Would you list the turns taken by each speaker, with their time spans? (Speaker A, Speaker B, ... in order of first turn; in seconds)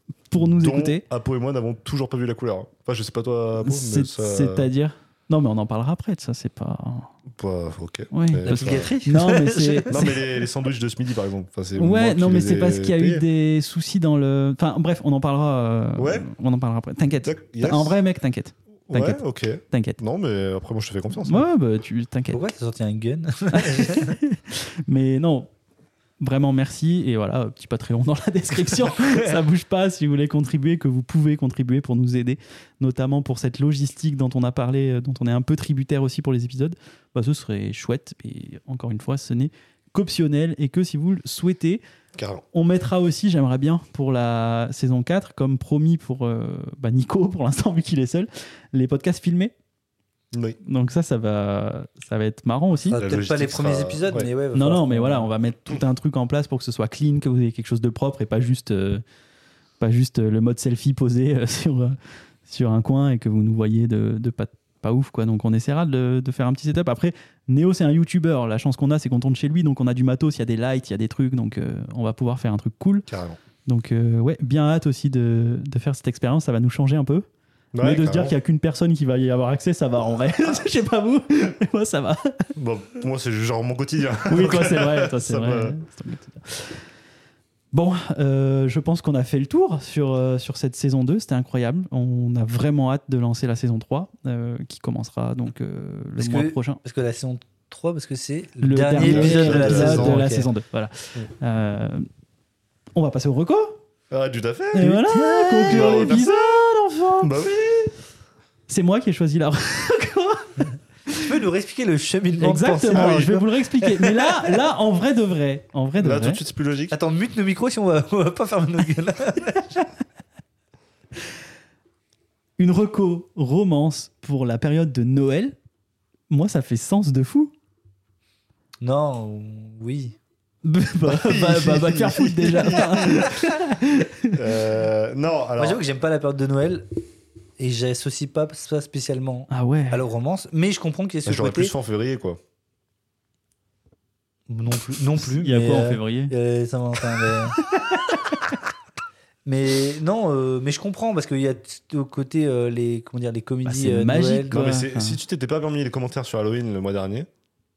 Speaker A: 0.3-1.0, 3.6-7.1, 8.1-10.2, 11.8-20.0, 21.2-22.4, 23.5-25.5, 26.2-41.8, 42.5-49.5, 50.6-53.0, 54.5-59.0, 59.8-73.1, 73.7-77.2, 77.8-82.5, 84.3-86.8, 87.7-96.8, 98.6-102.1, 103.0-103.8, 104.8-107.6, 108.7-111.2, 112.4-116.4, 122.6-125.5, 126.3-127.5, 130.7-134.4, 139.5-140.0, 145.2-146.3, 153.7-155.2
Speaker B: 0.4-4.7, 7.3-8.9, 9.9-13.2, 16.0-16.3, 17.2-18.0, 18.9-21.5, 42.2-42.4, 50.3-50.6, 53.0-54.3, 73.1-73.4, 77.7-78.3, 82.6-85.8, 99.0-100.2, 104.1-105.0, 105.7-106.6, 107.2-107.9, 112.9-113.3, 116.0-117.0, 131.1-133.4, 134.3-135.8, 141.3-142.4, 154.5-157.3
Speaker C: 8.5-10.1, 22.3-24.2, 52.8-55.3, 96.2-100.5, 104.8-106.2, 111.2-114.6, 116.9-119.7, 128.8-130.2, 135.6-136.9, 137.6-141.7, 144.5-147.6, 149.4-154.6